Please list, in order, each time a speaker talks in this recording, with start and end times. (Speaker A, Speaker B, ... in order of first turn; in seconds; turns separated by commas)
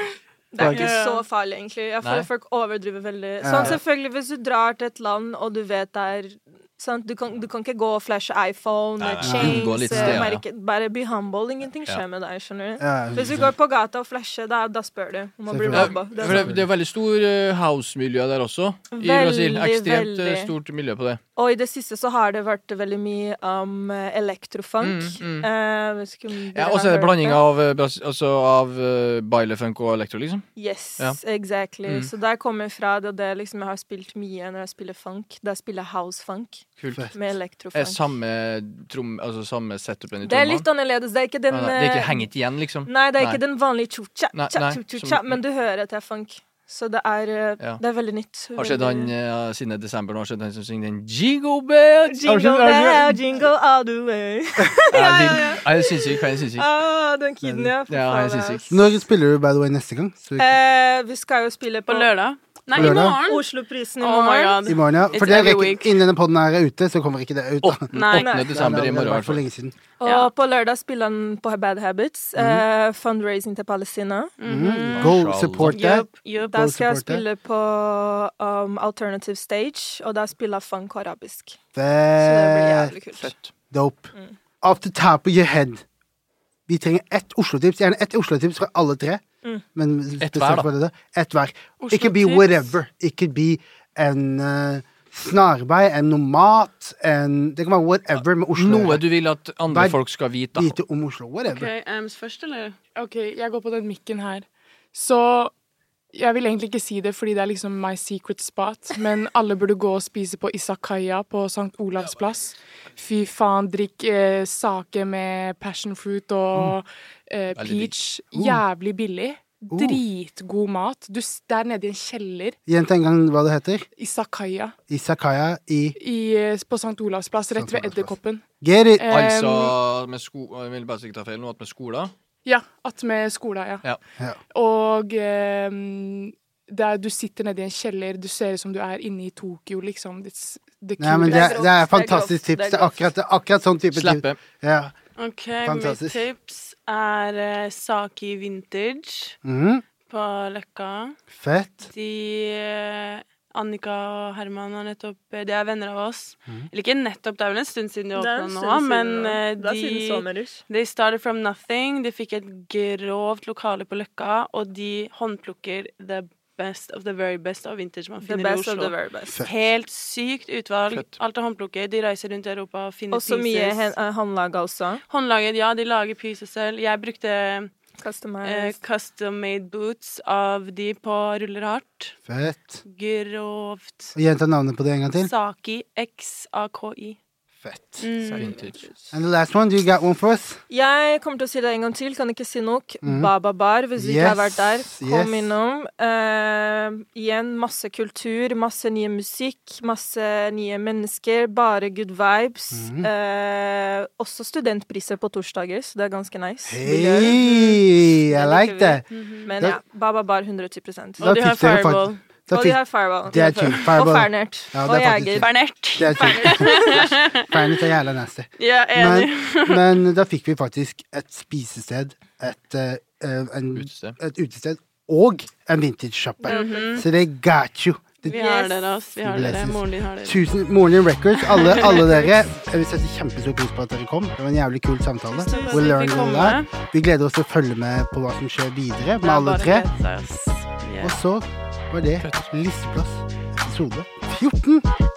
Speaker A: 0.5-16.6, Speaker B: 0.6-0.9, Speaker C: 0.7-1.2, Speaker B: 2.0-2.3, Speaker D: 3.4-3.8, Speaker B: 9.0-10.4, Speaker D: 9.2-10.2, Speaker D: 12.8-13.5, Speaker D: 15.5-16.6, Speaker B: 15.7-21.2, Speaker A: 18.9-20.5, Speaker A: 21.4-27.4, Speaker B: 24.8-25.5, Speaker B: 26.5-31.2, Speaker A: 30.6-38.0, Speaker B: 36.8-37.1, Speaker B: 37.7-40.7, Speaker A: 40.2-42.3, Speaker B: 41.5-43.4, Speaker A: 42.9-49.1, Speaker B: 44.3-45.4, Speaker B: 48.6-53.5, Speaker A: 52.1-58.9, Speaker B: 54.9-56.7, Speaker D: 57.4-57.7, Speaker B: 57.9-58.6, Speaker D: 58.7-60.5, Speaker A: 60.4-62.1, Speaker C: 61.9-63.5, Speaker A: 62.7-64.6, Speaker D: 62.8-63.2, Speaker C: 64.0-66.0, Speaker D: 64.7-69.7, Speaker B: 67.6-69.4, Speaker C: 67.9-68.4, Speaker A: 68.2-68.5, Speaker A: 70.0-74.3, Speaker C: 70.0-70.3, Speaker D: 72.4-72.6, Speaker C: 74.4-76.5, Speaker D: 74.5-77.2, Speaker B: 75.0-75.8, Speaker A: 76.5-81.6, Speaker D: 81.8-82.9, Speaker A: 82.2-83.3, Speaker B: 83.2-83.5, Speaker D: 83.7-85.8, Speaker D: 86.7-89.2, Speaker D: 89.8-99.0, Speaker B: 90.2-90.7, Speaker C: 91.8-92.7, Speaker B: 98.5-100.8, Speaker D: 99.7-100.0, Speaker D: 100.5-101.7, Speaker C: 101.5-102.8, Speaker E: 103.0-105.5, Speaker E: 106.1-122.6, Speaker B: 117.6-117.9, Speaker D: 118.3-118.6, Speaker D: 119.7-120.0, Speaker D: 122.7-123.9, Speaker E: 124.0-124.8, Speaker D: 124.9-126.0, Speaker E: 126.0-129.8, Speaker D: 127.5-129.1, Speaker B: 129.1-132.1, Speaker E: 132.4-133.9, Speaker E: 134.5-141.6, Speaker D: 141.0-144.9, Speaker A: 141.3-143.0, Speaker B: 143.9-144.4, Speaker C: 145.2-149.4, Speaker D: 145.6-146.2, Speaker D: 149.4-149.8, Speaker C: 150.1-151.2, Speaker D: 151.3-151.9, Speaker C: 151.9-173.9, Speaker A: 158.2-160.6, Speaker A: 168.2-169.5, Speaker A: 173.1-175.0, Speaker C: 175.1-177.7, Speaker A: 178.0-178.8, Speaker C: 178.4-182.2, Speaker D: 182.3-182.8, Speaker C: 182.8-184.2, Speaker D: 184.2-185.3, Speaker C: 185.1-187.2, Speaker D: 187.6-188.0, Speaker C: 188.0-188.7, Speaker A: 188.2-188.8, Speaker B: 188.4-188.8, Speaker D: 189.1-190.6, Speaker A: 190.7-211.3, Speaker D: 193.0-193.3, Speaker D: 194.0-195.5, Speaker D: 202.7-203.1, Speaker D: 206.7-209.0, Speaker C: 209.1-209.5, Speaker D: 211.2-228.2, Speaker C: 211.2-212.2, Speaker A: 212.5-217.1, Speaker C: 213.3-214.0, Speaker C: 215.4-217.7, Speaker C: 218.6-220.0, Speaker B: 223.8-224.2, Speaker A: 226.4-227.0, Speaker C: 226.5-227.1, Speaker A: 228.2-228.8, Speaker C: 228.2-230.4, Speaker D: 229.2-239.9, Speaker C: 231.6-232.1, Speaker A: 235.4-236.3, Speaker C: 235.5-236.7, Speaker C: 239.2-241.2, Speaker D: 241.0-244.9, Speaker B: 242.2-242.5